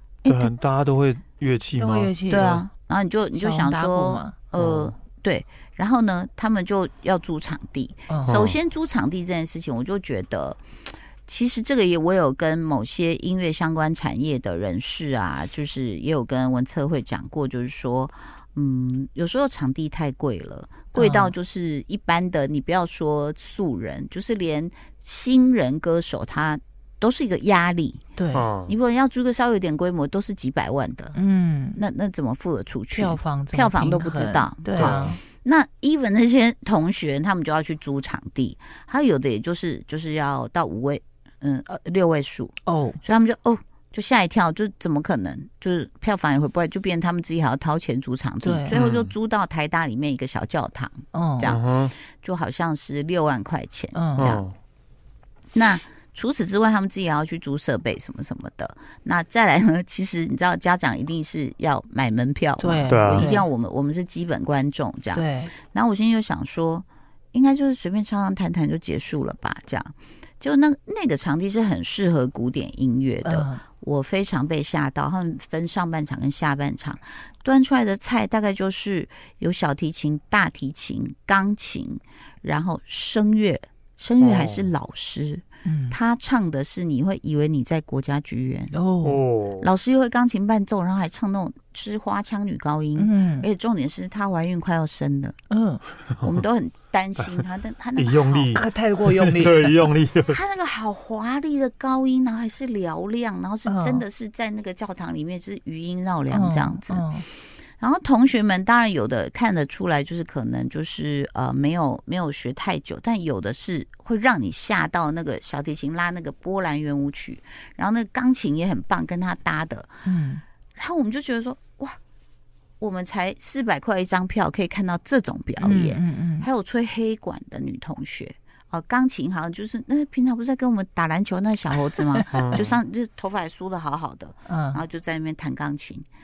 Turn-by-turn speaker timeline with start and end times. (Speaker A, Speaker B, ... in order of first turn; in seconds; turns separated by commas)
Speaker A: 0.2-0.5, Speaker B: 0.3-2.6, Speaker C: 1.8-2.6, Speaker A: 2.3-10.6, Speaker C: 3.4-4.4, Speaker B: 4.5-4.9, Speaker B: 8.2-8.6, Speaker A: 11.2-28.0, Speaker C: 20.9-21.3, Speaker C: 28.2-28.5, Speaker B: 28.3-28.8, Speaker A: 28.7-31.2, Speaker C: 31.1-31.8, Speaker A: 31.8-54.4, Speaker C: 32.9-35.2, Speaker B: 34.8-35.2, Speaker C: 42.7-43.0, Speaker C: 48.4-48.8, Speaker B: 48.7-49.1, Speaker C: 51.1-51.5, Speaker B: 51.4-51.9, Speaker C: 53.9-54.4, Speaker B: 54.2-54.6, Speaker A: 55.5-88.8, Speaker C: 62.6-63.5, Speaker B: 62.9-63.3, Speaker C: 65.1-65.5, Speaker C: 73.2-73.6, Speaker B: 84.2-84.7, Speaker C: 85.7-86.0, Speaker C: 88.7-89.2, Speaker B: 89.0-89.7, Speaker A: 89.6-95.4, Speaker C: 93.0-93.5, Speaker C: 95.5-95.8, Speaker A: 96.2-98.6, Speaker B: 98.0-100.4, Speaker C: 98.5-99.9, Speaker A: 100.3-107.1, Speaker C: 103.7-104.0, Speaker C: 106.3-107.2, Speaker A: 107.8-119.9, Speaker C: 120.0-120.4, Speaker A: 120.8-122.0, Speaker A: 122.8-136.1, Speaker C: 125.6-126.5, Speaker B: 132.3-132.8, Speaker C: 134.5-134.8